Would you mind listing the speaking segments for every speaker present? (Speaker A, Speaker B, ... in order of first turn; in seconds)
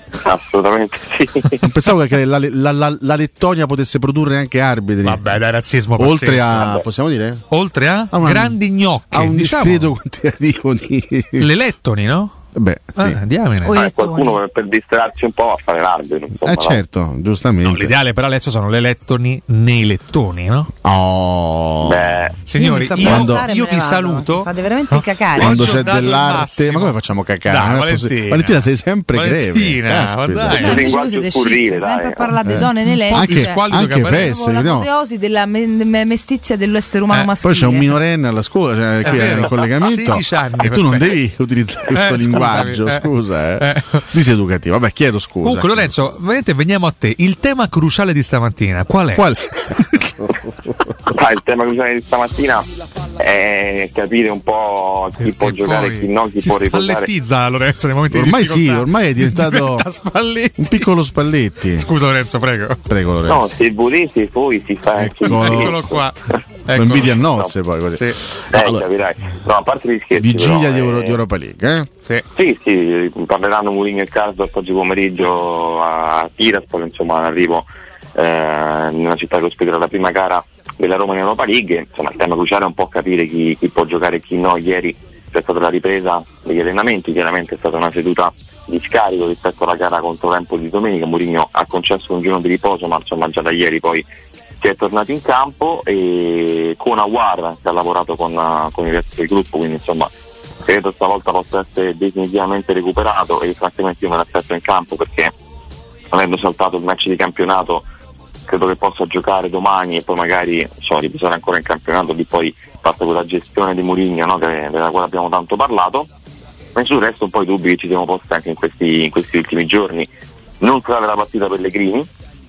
Speaker A: 0.2-1.6, 13.7-16.8, 21.8-22.4, 30.5-32.3, 51.1-57.1, 63.2-66.0, 67.2-67.5, 68.5-71.2, 72.3-94.0, 94.6-100.1, 100.6-105.3, 106.1-107.9, 108.5-116.1, 116.8-120.1, 120.6-122.1
Speaker B: 1.6-5.3, 6.0-7.4, 8.1-11.5, 12.6-13.2, 16.4-17.9, 20.8-22.2, 22.9-23.5, 25.3-30.9, 32.4-34.9, 37.4-45.9, 49.1-49.6, 58.1-59.9, 60.6-61.9, 62.9-63.5, 65.0-66.0, 66.7-68.8, 70.2-71.9
Speaker C: 5.0-6.8, 7.5-9.9, 11.4-12.3, 13.0-13.8, 17.6-20.7, 22.4-30.7, 32.8-34.4, 39.0-41.2, 41.9-44.1, 45.4-50.1, 55.2-60.9, 61.8-62.8, 65.2-67.2, 67.9-68.2
Speaker D: 13.6-14.4, 22.6-25.6, 30.5-33.6, 34.2-37.9